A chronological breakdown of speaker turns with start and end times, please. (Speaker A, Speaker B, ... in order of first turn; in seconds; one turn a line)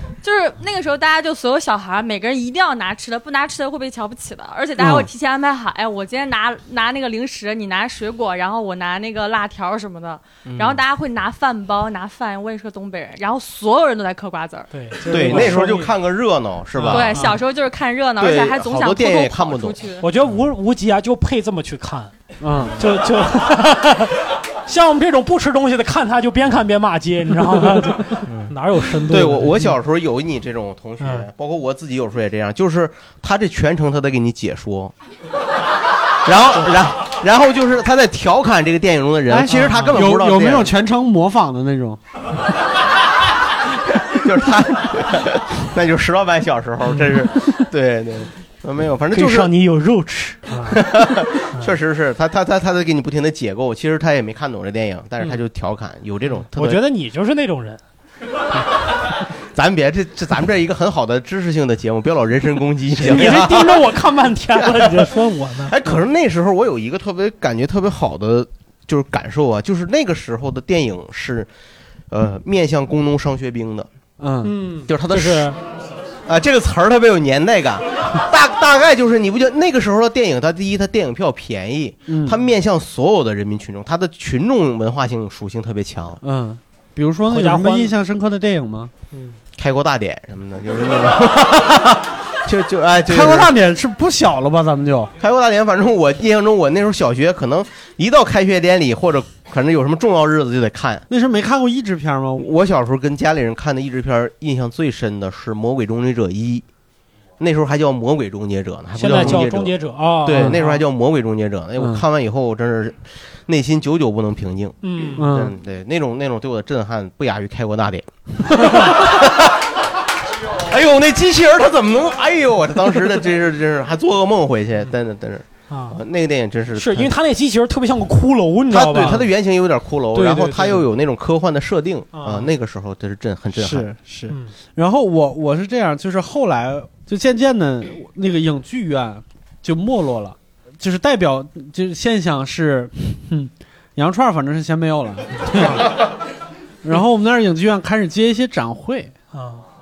Speaker A: 0.2-14.7
Speaker B: 4.8-5.1
Speaker C: 10.4-10.8
Speaker D: 14.7-15.9
Speaker C: 15.1-17.3
Speaker D: 16.8-17.4
Speaker A: 16.9-20.0
Speaker C: 18.2-19.8
Speaker D: 20.0-22.1
Speaker B: 22.4-22.8
Speaker D: 22.8-29.7
Speaker C: 29.1-34.9
Speaker D: 31.0-31.2
Speaker C: 36.2-40.7
Speaker B: 39.3-42.0
Speaker D: 39.6-39.9
Speaker C: 43.9-49.5
Speaker D: 49.1-50.9
Speaker C: 50.6-56.8
Speaker D: 56.5-57.8
Speaker C: 59.5-63.9
Speaker D: 63.0-65.7
Speaker C: 64.6-71.5
Speaker C: 72.1-73.9
Speaker B: 74.2-74.5
Speaker D: 74.4-75.6
Speaker C: 74.9-75.6
Speaker C: 76.3-86.2
Speaker B: 82.1-82.4
Speaker B: 86.2-88.9
Speaker D: 87.3-87.9
Speaker D: 89.1-89.4
Speaker C: 89.6-93.5
Speaker B: 93.0-95.1
Speaker C: 95.2-101.0
Speaker B: 101.1-102.5
Speaker C: 102.4-106.6
Speaker C: 107.4-119.5
Speaker D: 109.0-110.8
Speaker B: 111.8-112.0
Speaker D: 114.8-115.3
Speaker B: 115.2-115.5
Speaker C: 120.5-127.1
Speaker D: 125.7-126.0
Speaker D: 126.7-129.3
Speaker C: 128.7-133.9
Speaker D: 130.1-130.8
Speaker D: 132.1-132.5
Speaker B: 133.5-143.3
Speaker B: 143.9-145.9
Speaker B: 146.8-149.1
Speaker D: 149.3-149.6